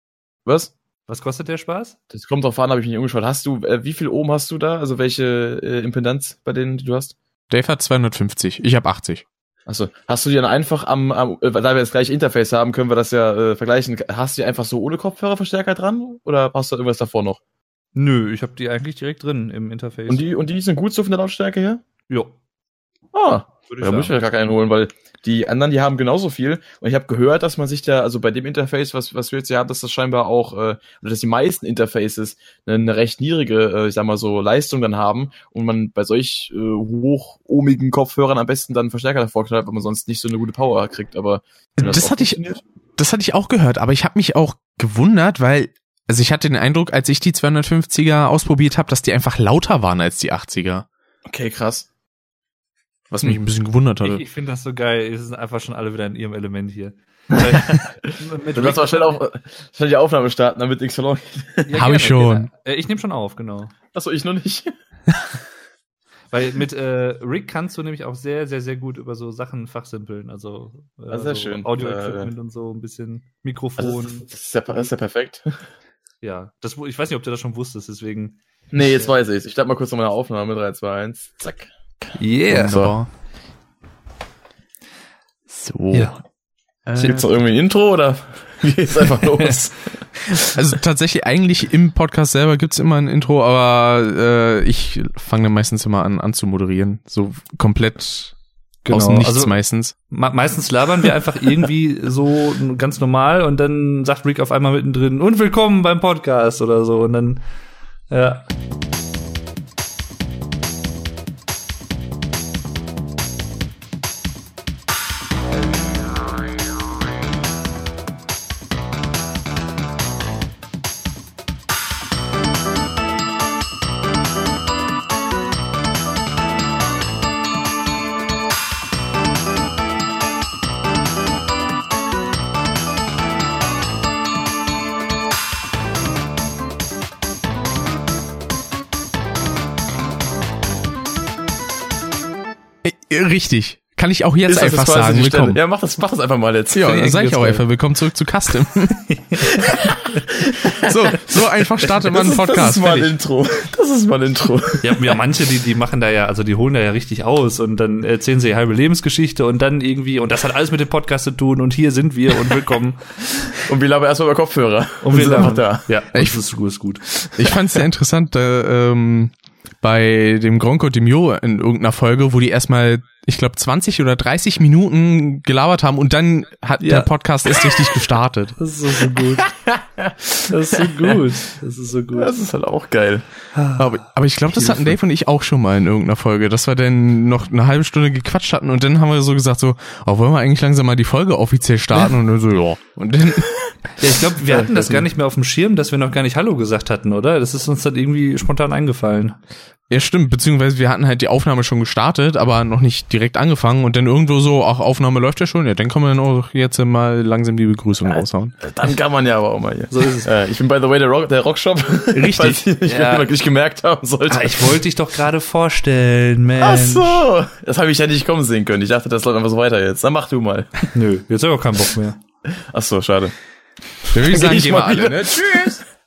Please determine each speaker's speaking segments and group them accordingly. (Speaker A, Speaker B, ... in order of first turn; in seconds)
Speaker A: 0.5-0.7, 2.1-7.2, 9.7-17.4, 20.1-21.8, 23.1-42.6, 51.3-51.9, 57.3-61.7, 63.9-64.7, 71.1-72.3, 73.8-75.5, 78.7-82.9, 87.0-89.9, 144.5-147.0, 149.4-151.2, 152.1-155.1, 163.6-165.9, 179.4-181.2, 182.2-183.2, 194.5-195.0, 208.2-214.8, 216.6-220.9, 222.6-223.3, 224.1-225.8
Speaker B: 1.1-2.0, 18.0-20.2, 23.7-24.1, 54.0-59.2, 61.7-63.7, 66.3-74.3, 76.2-78.4, 82.2-82.9, 98.8-99.6, 100.1-107.4, 108.1-108.5, 146.8-147.6, 149.1-149.5, 154.8-163.5, 165.0-167.1, 176.8-177.1, 178.6-179.5, 180.5-182.3, 183.6-183.9, 194.0-199.4, 209.9-210.3, 212.9-213.3, 214.3-217.3, 220.9-222.2
Speaker C: 7.5-9.2, 41.8-42.4, 43.0-50.9, 53.1-54.2, 61.7-62.5, 82.5-83.1, 85.5-86.2, 86.9-87.3, 90.4-98.3, 98.9-99.9, 142.8-145.6, 146.8-149.1, 150.8-153.1, 166.1-166.4, 167.4-178.6, 183.8-193.5, 199.9-208.6, 212.1-212.7, 224.1-225.8